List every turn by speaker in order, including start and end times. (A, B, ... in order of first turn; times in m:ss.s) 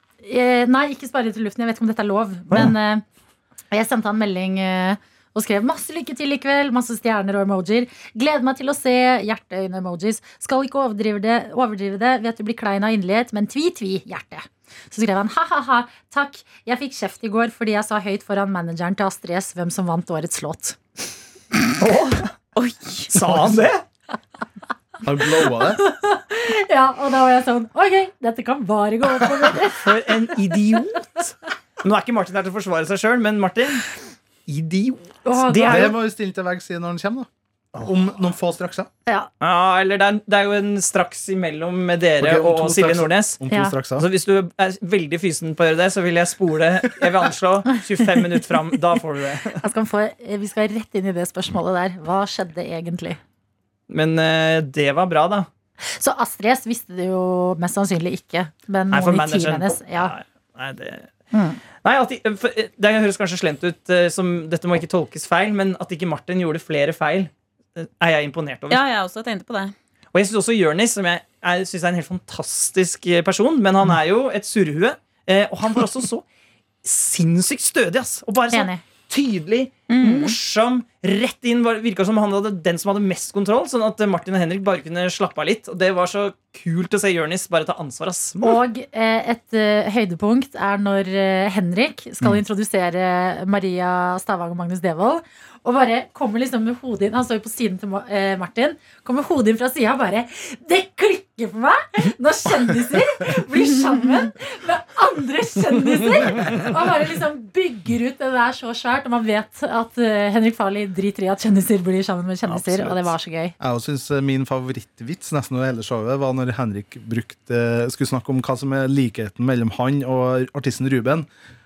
0:00.2-0:03.0 A
0:03.7-0:20.8 A
0:21.8-0:22.3 B
0:22.6-0:23.1 C
0:23.1-0:23.8 B
0:25.0-0:25.8 D
0:25.5-0:29.9 A
0:29.8-0:33.8 B
0:34.5-0:35.9 B
0:35.2-0:35.9 A
0:35.6-0:37.3 D
0:37.8-0:38.9 D
0:39.4-0:43.4 B
0:42.2-0:44.1 D
0:43.5-0:43.7 A
0:44.0-0:49.6 B
0:49.6-0:53.2 A
0:53.9-0:55.5 B
0:55.9-1:00.1 A
0:58.9-1:01.1 B
1:01.3-1:01.6 A
1:01.8-1:08.8 B
1:08.7-1:09.7 C
1:10.1-1:16.2 B
1:16.8-1:28.6 B
1:18.5-1:18.8 A
1:19.9-1:20.4 C
1:28.4-1:53.6 A
1:52.5-1:53.0 B
1:53.6-2:01.3 D